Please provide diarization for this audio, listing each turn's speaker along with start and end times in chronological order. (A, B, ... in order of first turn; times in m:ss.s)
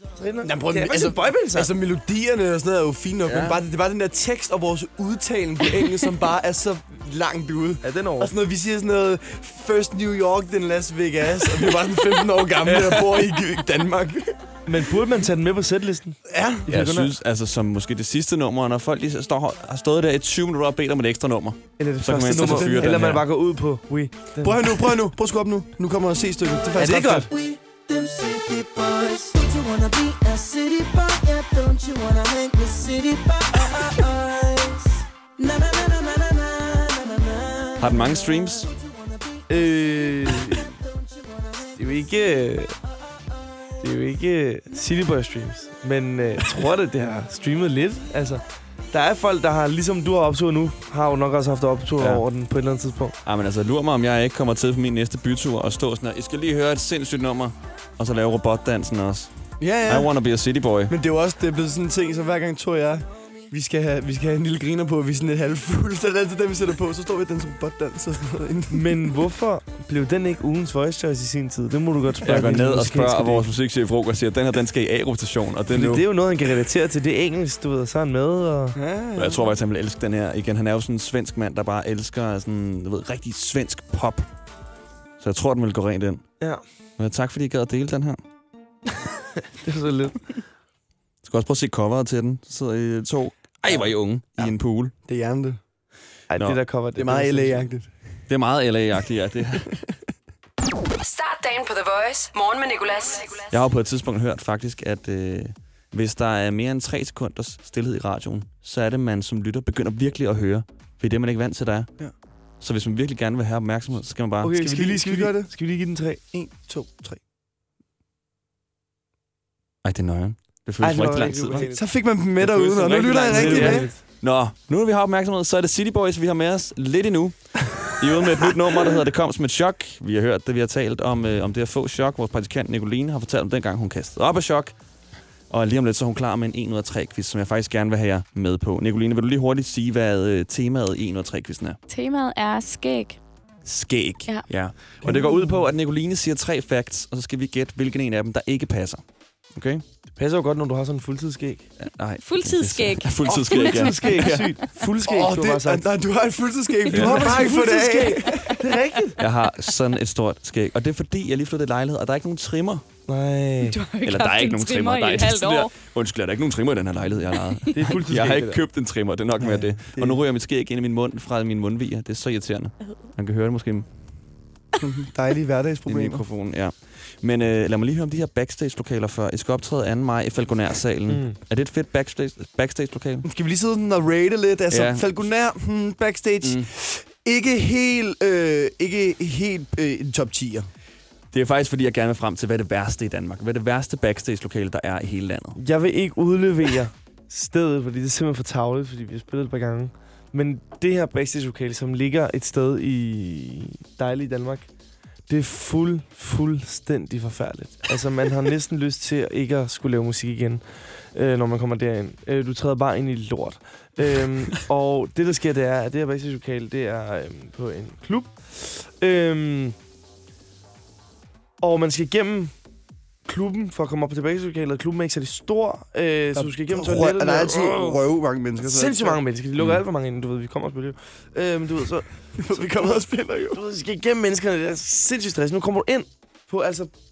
0:00.2-0:01.7 A
0:00.4-0:14.4 B
0:03.2-0:03.6 C
0:07.8-0:08.3 A
0:12.6-0:13.4 C
0:14.7-0:17.1 A
0:16.3-0:16.8 B
0:16.7-0:23.2 C
0:21.8-0:24.8 A
0:22.3-0:23.1 B
0:24.4-0:27.3 B
0:26.8-0:27.3 A
0:27.3-0:42.1 D
0:37.8-0:38.7 C
0:39.5-0:40.7 A
0:41.8-0:42.7 A
0:43.8-0:53.2 A
0:52.0-0:52.2 C
0:53.2-0:59.3 C
0:59.6-1:00.1 B
0:59.8-1:00.9 C
1:00.9-1:09.0 B
1:08.7-1:13.5 A
1:12.2-1:16.0 C
1:15.7-1:18.8 A
1:18.8-1:19.5 B
1:19.2-1:24.3 C
1:25.2-1:26.2 C
1:27.0-1:28.2 C
1:29.6-1:30.2 A
1:31.2-1:34.9 C
1:34.4-1:35.6 B
1:36.3-1:37.7 A
1:37.0-1:37.9 B
1:38.3-1:39.7 C
1:41.0-1:43.6 E
1:43.5-1:51.9 C
1:52.6-1:54.6 C
1:54.4-1:56.2 A
1:54.5-1:55.5 B
1:56.3-1:57.2 B
1:59.8-2:01.7 C
2:00.8-2:01.8 A
2:01.6-2:03.9 B
2:02.4-2:14.8 C
2:03.3-2:04.0 A
2:15.5-2:21.8 C
2:21.9-2:23.2 F
2:23.6-2:29.0 C
2:29.6-2:29.8 C
2:30.2-2:31.7 A
2:31.8-2:34.5 C
2:32.2-2:34.9 F
2:33.2-2:35.8 A
2:35.1-2:38.6 B
2:36.9-2:39.2 A
2:36.9-2:37.3 C
2:39.2-2:42.8 C
2:43.1-2:43.8 A
2:43.6-2:45.7 F
2:44.0-2:53.9 C
2:47.7-2:48.6 A
2:49.4-2:50.2 B
2:54.8-2:56.2 B
2:55.9-3:03.3 C
3:01.1-3:01.4 A
3:03.2-3:10.7 B
3:04.7-3:05.0 C
3:06.4-3:06.7 C
3:11.3-3:15.6 C
3:15.6-3:24.7 A
3:25.3-3:39.8 A
3:41.6-3:42.5 A
3:43.3-3:48.0 A
3:46.4-3:49.2 B
3:48.6-3:56.9 A
3:52.4-3:53.6 B